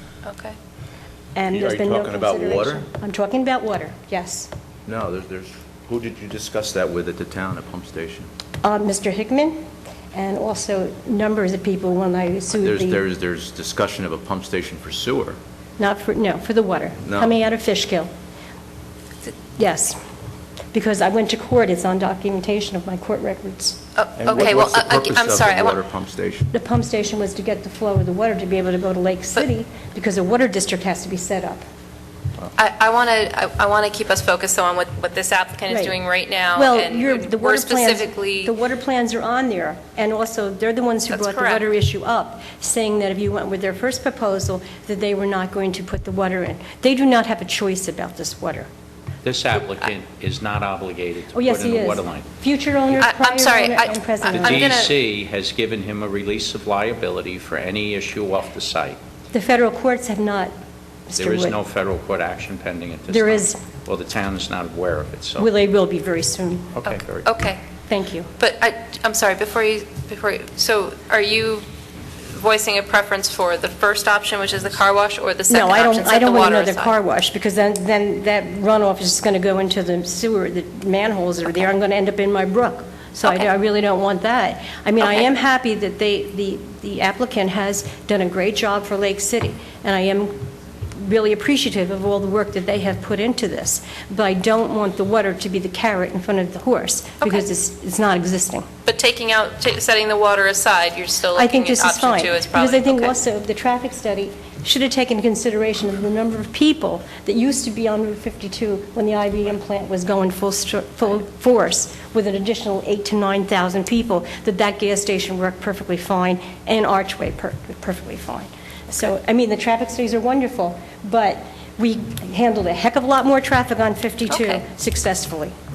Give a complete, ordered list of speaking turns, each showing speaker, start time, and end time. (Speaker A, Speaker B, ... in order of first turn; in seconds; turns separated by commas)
Speaker A: 0.2-0.6, Speaker B: 1.3-4.5, Speaker C: 1.7-2.8, Speaker C: 4.9-5.3, Speaker C: 5.9-8.2, Speaker B: 8.6-13.0, Speaker C: 12.6-15.3, Speaker B: 15.8-18.1, Speaker B: 19.6-20.0, Speaker B: 20.7-23.8, Speaker A: 23.9-25.8, Speaker C: 24.2-26.5, Speaker B: 26.5-31.6, Speaker A: 32.5-38.5, Speaker B: 35.7-35.9, Speaker B: 36.5-48.7, Speaker A: 41.1-41.7, Speaker D: 49.2-52.2, Speaker B: 51.3-54.7, Speaker A: 53.0-55.0, Speaker D: 54.5-59.0, Speaker B: 59.3-60.5, Speaker B: 61.1-61.6, Speaker D: 61.2-65.5, Speaker B: 63.1-63.6, Speaker B: 65.4-66.8, Speaker A: 66.8-67.6, Speaker B: 67.9-68.3, Speaker A: 68.4-71.7, Speaker A: 72.2-77.0, Speaker B: 75.5-98.7, Speaker A: 98.8-103.2, Speaker B: 101.3-125.5, Speaker A: 124.3-124.6